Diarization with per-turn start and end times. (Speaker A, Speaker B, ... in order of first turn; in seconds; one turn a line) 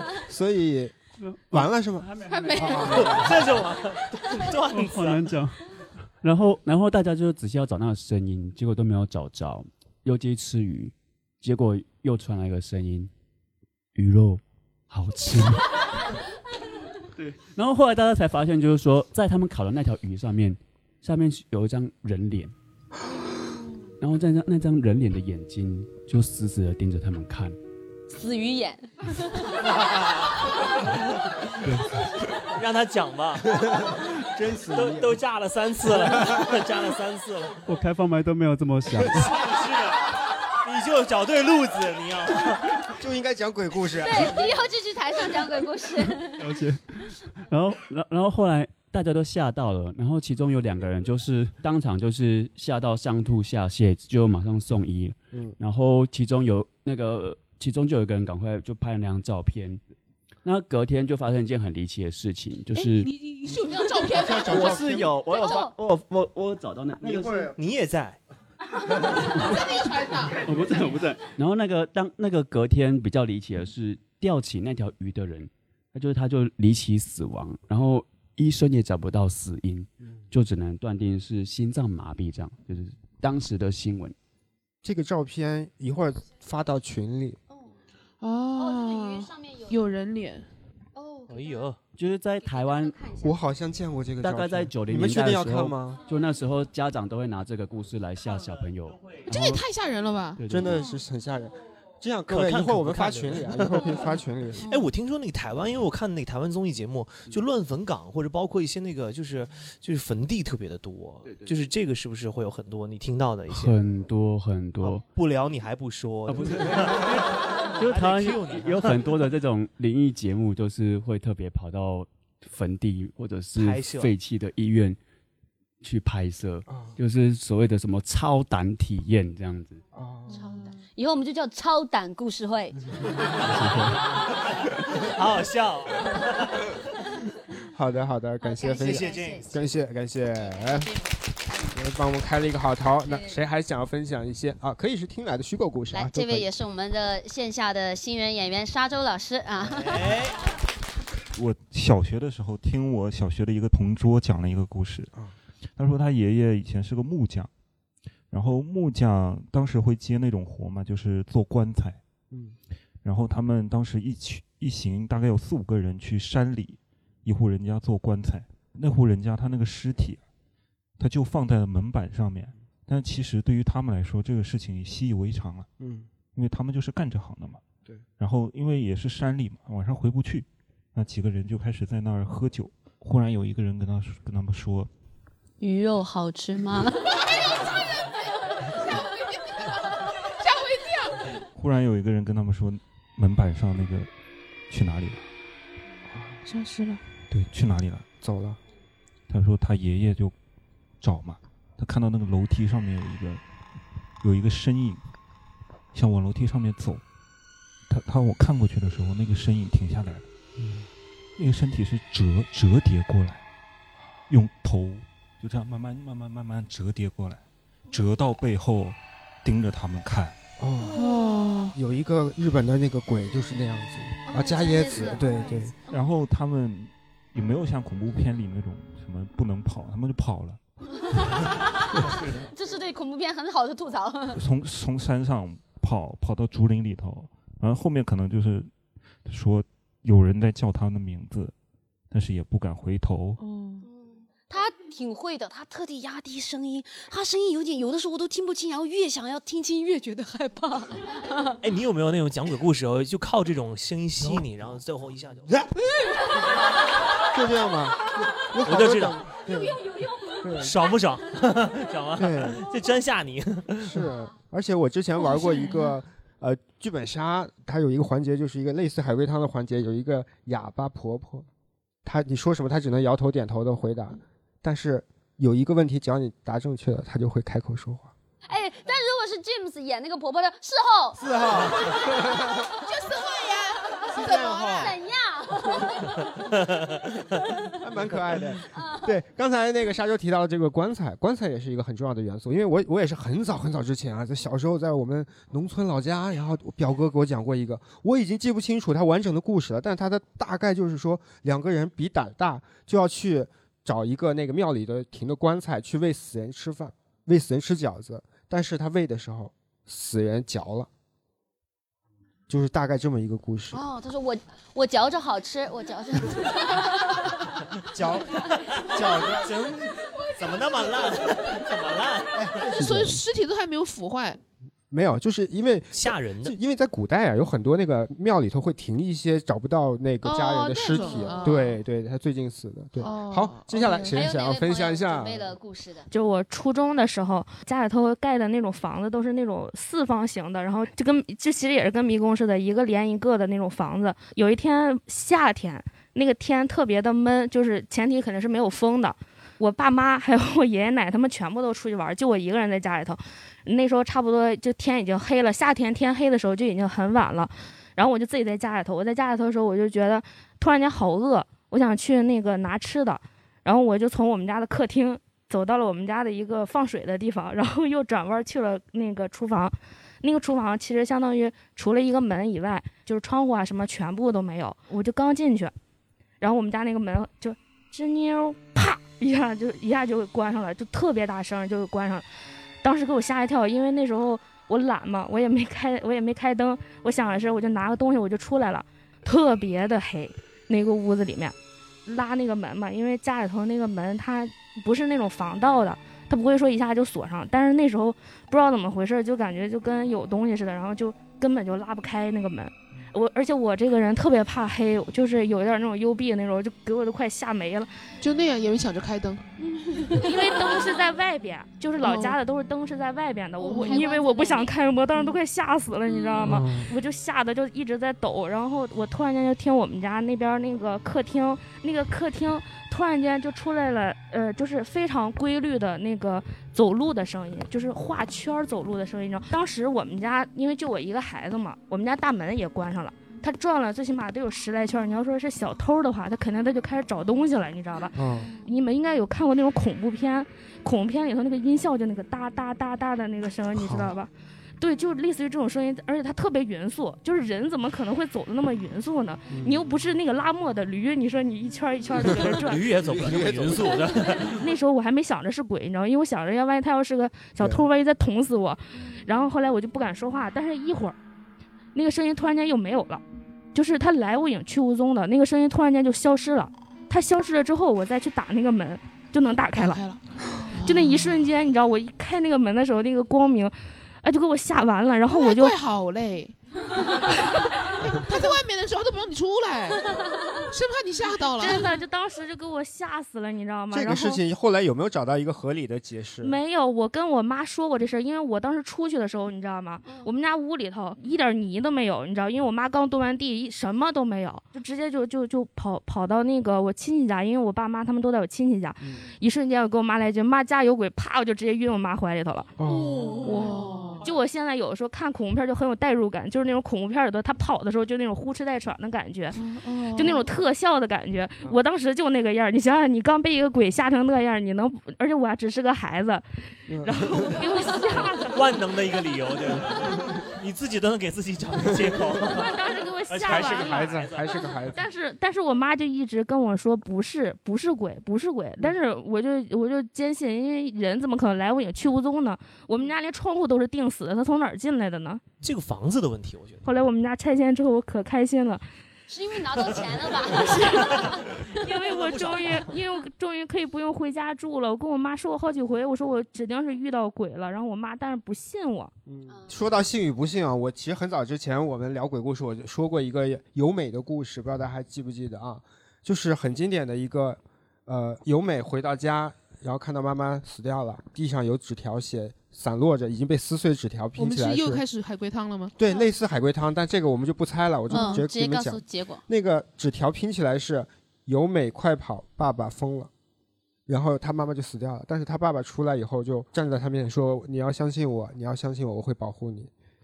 Speaker A: 0.3-1.0
Speaker B: 1.2-3.4
Speaker A: 1.5-3.2
Speaker C: 2.3-3.0
Speaker D: 2.8-5.3
Speaker B: 4.3-5.6
Speaker B: 6.2-13.1
Speaker B: 13.9-15.7
Speaker B: 17.2-22.5
Speaker B: 24.0-27.6
Speaker E: 28.1-29.6
Speaker D: 29.8-30.2
Speaker B: 31.6-31.9
Speaker D: 32.5-34.0
Speaker A: 33.5-35.2
Speaker D: 34.7-37.6
Speaker B: 37.7-39.4
Speaker D: 39.1-42.7
Speaker A: 42.9-44.4
Speaker E: 44.0-46.6
Speaker B: 46.4-59.8
Speaker B: 60.4-63.1
Speaker C: 62.8-65.6
Speaker A: 64.1-65.2
Speaker B: 64.4-67.5
Speaker E: 65.3-65.7
Speaker A: 67.0-67.5
Speaker D: 67.5-68.2
Speaker C: 69.2-70.6
Speaker B: 69.3-69.6
Speaker B: 70.3-84.2
Speaker A: 84.8-87.4
Speaker C: 88.2-90.5
Speaker E: 88.5-89.8
Speaker E: 91.0-91.7
Speaker D: 91.3-91.8
Speaker B: 92.0-93.0
Speaker E: 92.5-93.4
Speaker A: 93.2-96.0
Speaker B: 94.2-99.6
Speaker C: 99.3-100.4
Speaker B: 100.4-100.9
Speaker A: 100.5-104.7
Speaker D: 102.3-103.9
Speaker D: 104.7-113.8
Speaker B: 113.5-115.0
Speaker D: 114.8-119.1
Speaker B: 116.3-125.0
Speaker D: 123.6-124.1
Speaker B: 125.8-129.8
Speaker A: 126.7-127.0
Speaker A: 129.9-130.5
Speaker E: 130.3-133.4
Speaker B: 133.4-134.0
Speaker D: 135.0-136.7
Speaker A: 137.7-140.9
Speaker E: 138.4-139.7
Speaker D: 138.7-139.7
Speaker E: 140.3-141.7
Speaker A: 141.7-146.5
Speaker E: 143.0-143.4
Speaker E: 145.9-150.2
Speaker D: 149.6-150.4
Speaker F: 151.3-155.1
Speaker F: 155.8-157.5
Speaker F: 158.3-162.0
Speaker A: 162.3-162.6
Speaker F: 163.0-170.2
Speaker F: 171.0-175.7
Speaker A: 175.8-176.1
Speaker F: 176.3-177.6
Speaker F: 178.2-184.9
Speaker E: 185.6-187.2
Speaker C: 187.3-191.3
Speaker F: 191.6-194.1
Speaker F: 194.7-195.3
Speaker A: 196.1-196.4
Speaker C: 196.4-197.0
Speaker F: 197.3-198.1
Speaker A: 198.2-198.6
Speaker F: 199.3-200.3
Speaker F: 201.0-203.4
Speaker F: 204.2-205.0
Speaker F: 205.9-207.0
Speaker F: 207.9-210.3
Speaker A: 210.6-210.9
Speaker F: 211.4-213.4
Speaker F: 214.3-220.3
Speaker A: 220.6-221.0
Speaker E: 220.9-221.4
Speaker C: 220.9-221.8
Speaker A: 221.7-225.8
Speaker E: 224.3-225.9
Speaker F: 225.9-230.6
Speaker E: 232.3-234.4
Speaker F: 234.3-238.7
Speaker F: 239.3-241.5
Speaker F: 242.1-243.4
Speaker C: 243.4-243.9
Speaker E: 243.8-251.6
Speaker D: 251.6-255.6
Speaker A: 255.5-255.8
Speaker A: 257.3-259.8
Speaker D: 258.6-259.2
Speaker A: 260.4-260.8
Speaker D: 260.6-264.0
Speaker A: 262.2-262.6
Speaker A: 263.8-271.5
Speaker A: 272.1-278.1
Speaker E: 278.4-281.2
Speaker A: 281.1-282.6
Speaker C: 282.8-284.9
Speaker E: 284.0-286.3
Speaker A: 284.1-285.0
Speaker A: 287.7-310.9
Speaker E: 288.7-289.1
Speaker A: 312.5-313.8
Speaker E: 313.7-317.4
Speaker A: 317.9-319.5
Speaker D: 318.5-322.4
Speaker A: 322.3-323.2
Speaker C: 322.6-324.4
Speaker A: 324.9-335.5
Speaker D: 325.9-326.6
Speaker C: 330.3-331.8
Speaker E: 330.4-331.5
Speaker C: 333.0-334.2
Speaker E: 333.9-336.1
Speaker G: 336.1-375.7
Speaker G: 376.4-382.3
Speaker G: 382.8-391.6
Speaker G: 392.1-407.9
Speaker C: 408.2-410.6
Speaker G: 410.2-452.9
Speaker C: 412.0-412.4
Speaker E: 413.6-414.8
Speaker C: 413.6-414.1
Speaker A: 416.4-416.9
Speaker A: 438.1-438.5
Speaker A: 443.7-444.2
Speaker A: 449.5-449.9
Speaker D: 452.2-454.6
Speaker A: 453.0-454.4
Speaker G: 454.4-461.2
Speaker A: 457.6-457.9
Speaker G: 461.9-463.2
Speaker G: 463.7-470.0
Speaker C: 469.7-471.4
Speaker G: 470.7-475.8
Speaker C: 475.3-480.2
Speaker E: 480.0-480.7
Speaker C: 480.7-482.0
Speaker G: 481.6-484.4
Speaker A: 483.9-486.6
Speaker G: 486.4-502.7
Speaker E: 490.1-490.3
Speaker A: 502.8-503.7
Speaker C: 503.4-504.3
Speaker E: 503.6-504.1
Speaker G: 504.2-516.5
Speaker C: 509.6-510.5
Speaker A: 516.9-517.7
Speaker G: 517.0-518.7
Speaker D: 518.1-524.6
Speaker G: 522.4-524.3
Speaker A: 523.4-525.0
Speaker G: 524.9-535.4
Speaker D: 535.6-536.9
Speaker G: 536.9-538.8
Speaker E: 539.3-541.6
Speaker G: 540.7-549.1
Speaker D: 541.9-542.9
Speaker A: 549.3-565.0
Speaker E: 549.5-549.8
Speaker C: 564.4-566.0
Speaker A: 566.0-573.3
Speaker E: 568.1-569.4
Speaker C: 568.1-568.4
Speaker A: 574.1-579.9